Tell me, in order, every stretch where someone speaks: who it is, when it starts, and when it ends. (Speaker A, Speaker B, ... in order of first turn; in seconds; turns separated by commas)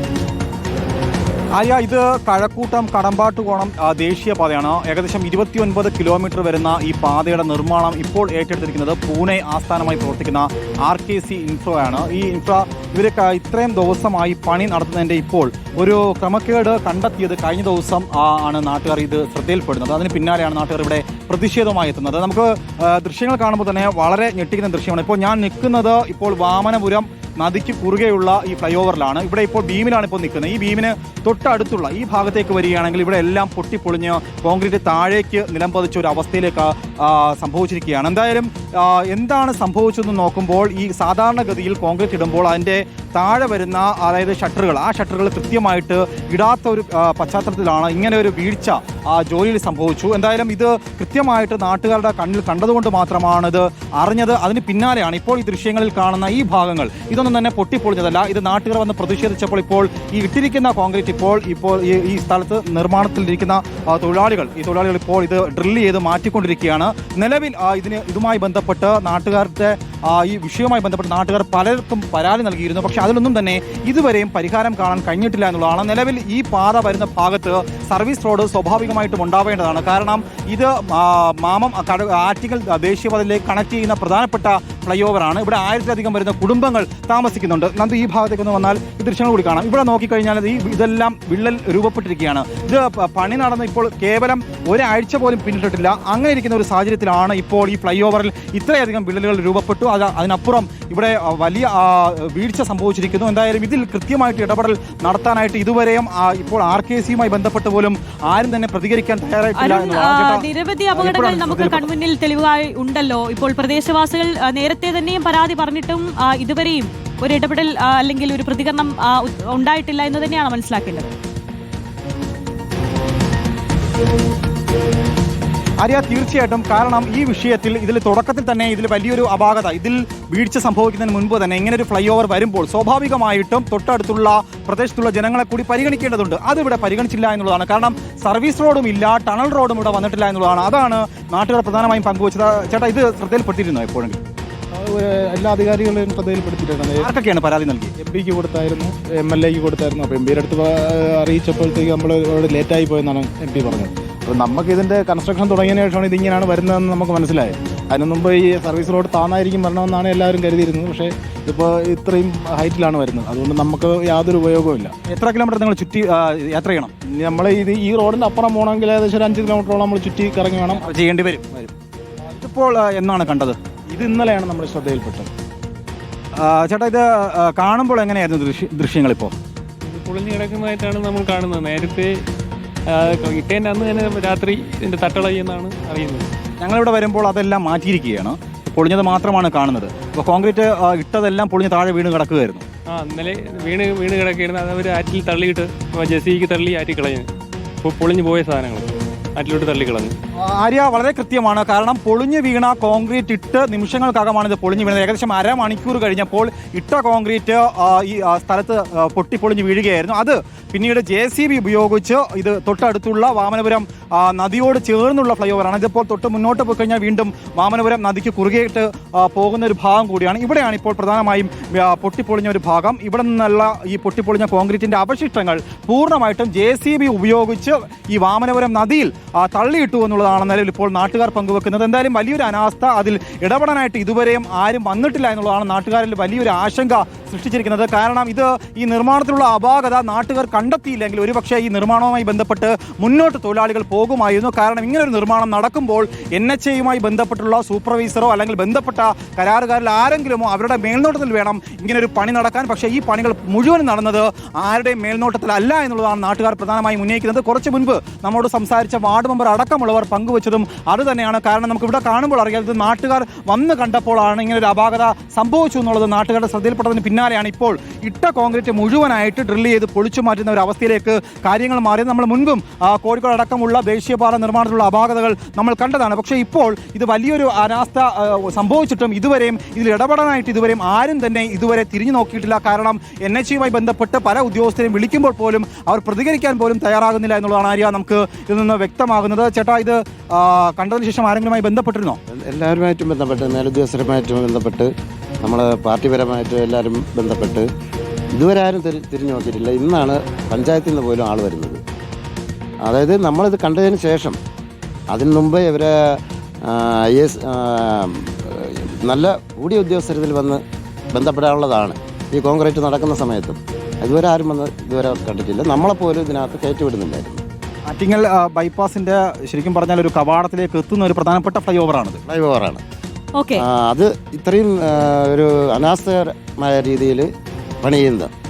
Speaker A: 1.5-111.9, Speaker B: 109.6-121.1, Speaker A: 125.8-144.2, Speaker C: 144.7-147.1, Speaker A: 147.0-147.9, Speaker C: 148.0-164.9, Speaker A: 165.1-166.9, Speaker C: 167.1-170.9, Speaker A: 170.8-171.7, Speaker A: 172.3-173.6, Speaker C: 173.9-175.3, Speaker A: 176.4-179.3, Speaker D: 179.8-182.1, Speaker D: 182.9-186.3, Speaker A: 186.6-192.6, Speaker D: 192.9-197.2, Speaker D: 197.8-200.1, Speaker A: 200.4-292.2, Speaker E: 292.3-294.9, Speaker E: 295.4-297.6, Speaker E: 298.3-301.8, Speaker E: 302.8-304.4, Speaker E: 305.1-310.6, Speaker E: 311.1-317.4, Speaker A: 317.9-322.2, Speaker E: 322.3-322.8, Speaker B: 323.4-323.6, Speaker E: 323.6-327.3, Speaker E: 327.8-328.3